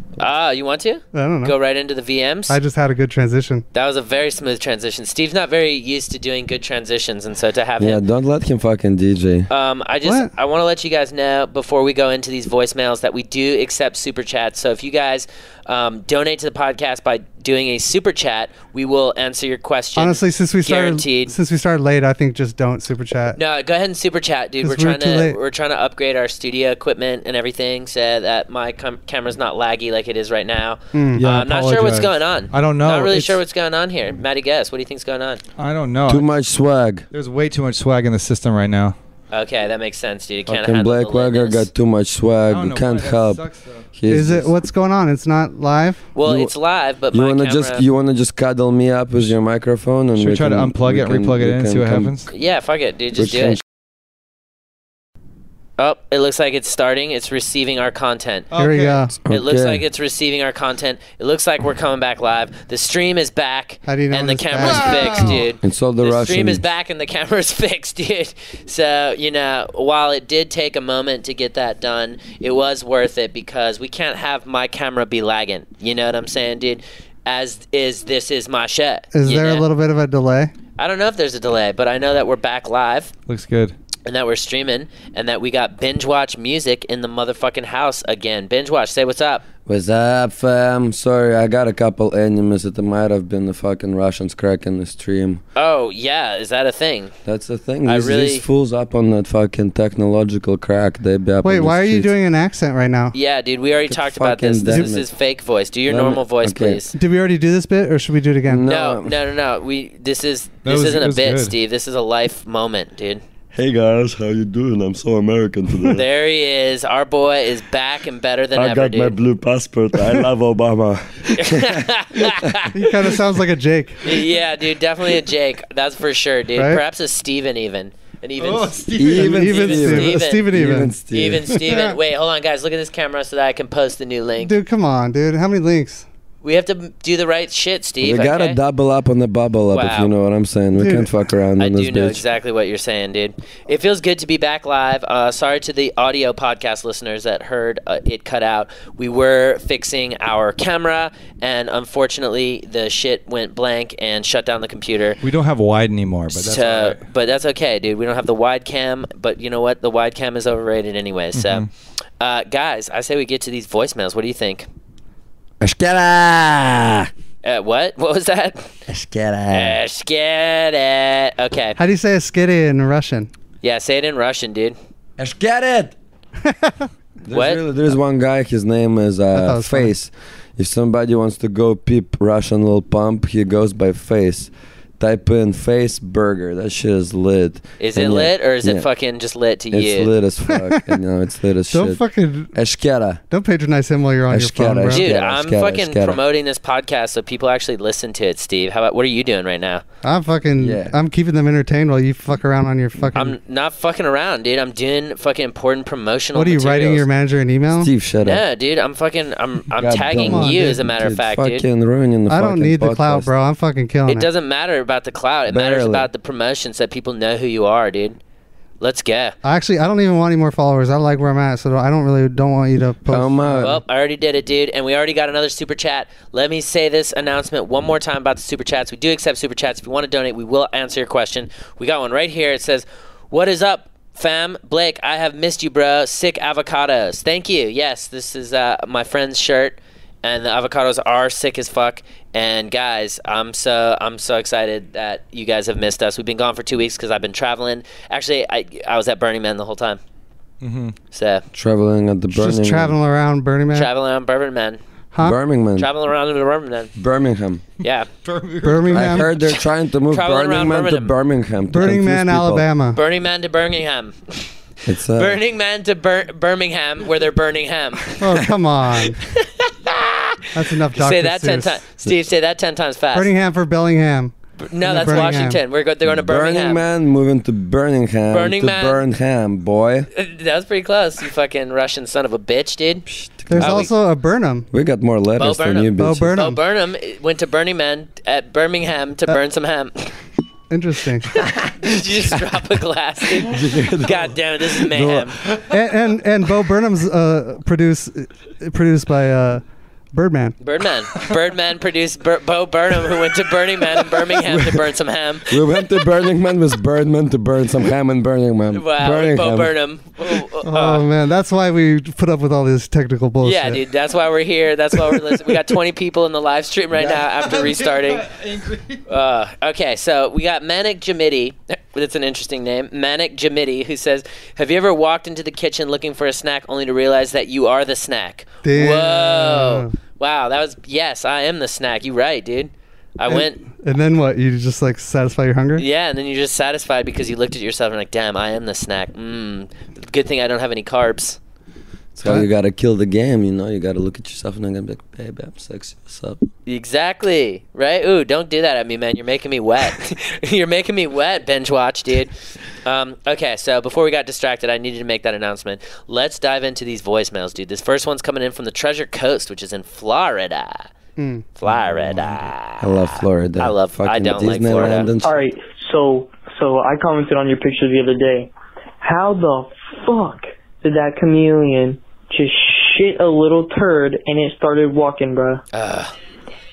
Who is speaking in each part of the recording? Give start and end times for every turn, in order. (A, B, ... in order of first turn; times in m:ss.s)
0:00.2-0:02.6 A
0:01.1-0:01.6 B
0:02.5-0:03.6 B
0:03.7-0:08.0 A
0:07.8-0:09.5 C
0:09.5-0:21.4 A
0:10.0-0:10.3 B
0:20.0-0:23.4 B
0:23.4-0:35.4 A
0:24.6-0:25.4 B
0:30.9-0:31.2 B
0:31.2-0:33.4 D
0:35.6-0:36.3 D
0:36.1-0:37.1 C
0:37.1-0:39.0 D
0:39.3-0:41.7 A
0:40.5-0:44.5 C
0:42.5-0:43.9 D
0:44.1-0:46.1 B
0:46.2-0:47.8 A
0:46.2-0:46.5 C
0:47.1-0:52.2 C
0:50.2-0:52.3 D
0:52.3-0:53.6 A
0:53.2-0:53.6 C
0:55.8-0:58.5 A
0:58.5-0:59.0 D
0:58.6-0:59.1 B
0:59.2-0:59.8 C
0:59.3-1:19.7 A
1:03.8-1:05.4 B
1:04.6-1:05.4 D
1:05.6-1:06.7 C
1:19.1-1:20.5 B
1:20.8-1:23.1 A
1:23.3-1:23.8 D
1:24.1-1:29.4 A
1:29.7-1:35.4 C
1:35.6-1:37.1 A
1:37.2-1:42.1 C
1:37.8-1:38.4 A
1:41.4-1:43.2 B
1:43.1-1:46.9 A
1:43.9-1:45.1 C
1:45.9-1:46.8 C
1:46.9-1:48.7 B
1:48.5-1:49.2 C
1:48.7-1:53.2 A
1:50.6-1:51.5 D
1:53.5-1:56.0 C
1:55.9-1:59.2 A
1:58.6-2:02.6 C
2:01.4-2:02.7 A
2:02.7-2:04.0 B
2:04.0-2:10.5 A
2:06.6-2:06.8 B
2:08.4-2:09.4 D
2:09.0-2:11.5 C
2:09.2-2:10.9 B
2:11.1-2:14.5 A
2:14.4-2:16.1 B
2:16.4-2:18.6 A
2:18.0-2:22.2 C
2:19.7-2:20.1 A
2:20.8-2:21.1 B
2:21.6-2:35.2 A
2:35.2-2:37.0 D
2:36.3-2:41.7 A
2:41.3-2:41.7 D
2:42.2-2:44.7 A
2:45.6-2:47.1 C
2:47.4-2:48.7 A
2:48.9-2:49.8 C
2:49.5-2:51.8 A
2:51.8-2:53.3 B
2:53.6-2:54.8 A
2:55.2-2:56.0 C
2:56.4-2:56.9 B
2:57.2-3:08.9 C
2:57.3-2:57.6 A
2:59.3-2:59.9 B
3:07.8-3:10.1 A
3:09.7-3:12.0 C
3:10.5-3:10.8 B
3:11.7-3:12.5 B
3:12.5-3:13.2 C
3:13.3-3:15.1 B
3:14.3-3:16.2 C
3:14.9-3:19.8 A
3:20.0-3:23.4 B
3:20.6-3:21.0 C
3:23.1-3:27.0 A
3:26.4-3:27.9 B
3:27.8-3:28.4 C
3:28.2-3:31.6 A
3:29.8-3:33.3 C
3:30.1-3:30.8 B
3:32.3-3:34.3 B
3:34.1-3:38.2 A
3:35.5-3:36.1 C
3:38.8-3:39.4 A
3:39.4-3:43.3 B
3:43.1-3:43.8 C
3:43.6-4:10.0 A
4:10.6-4:11.0 D
4:11.1-4:11.4 A
4:11.5-4:13.0 C
4:12.3-4:13.9 B
4:13.7-4:14.8 A
4:15.1-4:15.4 B
4:15.2-4:15.9 C
4:15.8-4:16.9 A
4:17.0-4:17.6 C
4:17.8-4:18.1 A
4:18.2-4:19.3 D
4:18.6-4:19.3 B
4:18.9-4:22.7 C
4:20.1-4:21.1 A
4:21.7-4:23.0 B
4:23.0-4:28.1 A
4:24.9-4:25.4 C
4:28.2-4:29.2 B
4:29.6-4:33.3 A
4:30.6-4:31.8 B
4:33.1-4:35.6 B
4:34.6-4:36.8 A
4:36.1-4:40.1 C
4:38.3-4:39.0 A
4:40.1-4:43.9 A
4:43.1-4:43.9 C
4:43.5-4:44.7 B
4:44.7-4:46.4 C
4:45.4-4:50.1 A
4:46.0-4:46.6 B
4:50.7-4:51.4 B
4:51.8-4:55.4 A
4:53.4-4:55.8 C
4:55.7-5:00.6 B
5:00.6-5:05.8 A
5:04.5-5:04.8 C
5:05.5-5:09.8 C
5:08.7-5:11.0 A
5:10.6-5:13.8 B
5:13.4-5:18.3 A
5:17.0-5:19.0 D
5:19.1-5:33.6 A
5:28.6-5:29.9 B
5:33.3-5:35.8 B
5:35.8-5:41.4 A
5:42.2-5:46.5 C
5:46.7-5:52.3 A
5:52.8-6:00.9 A
6:01.2-6:01.4 B
6:01.6-6:05.1 A
6:02.8-6:05.4 C
6:05.2-6:15.6 E
6:15.7-6:16.2 A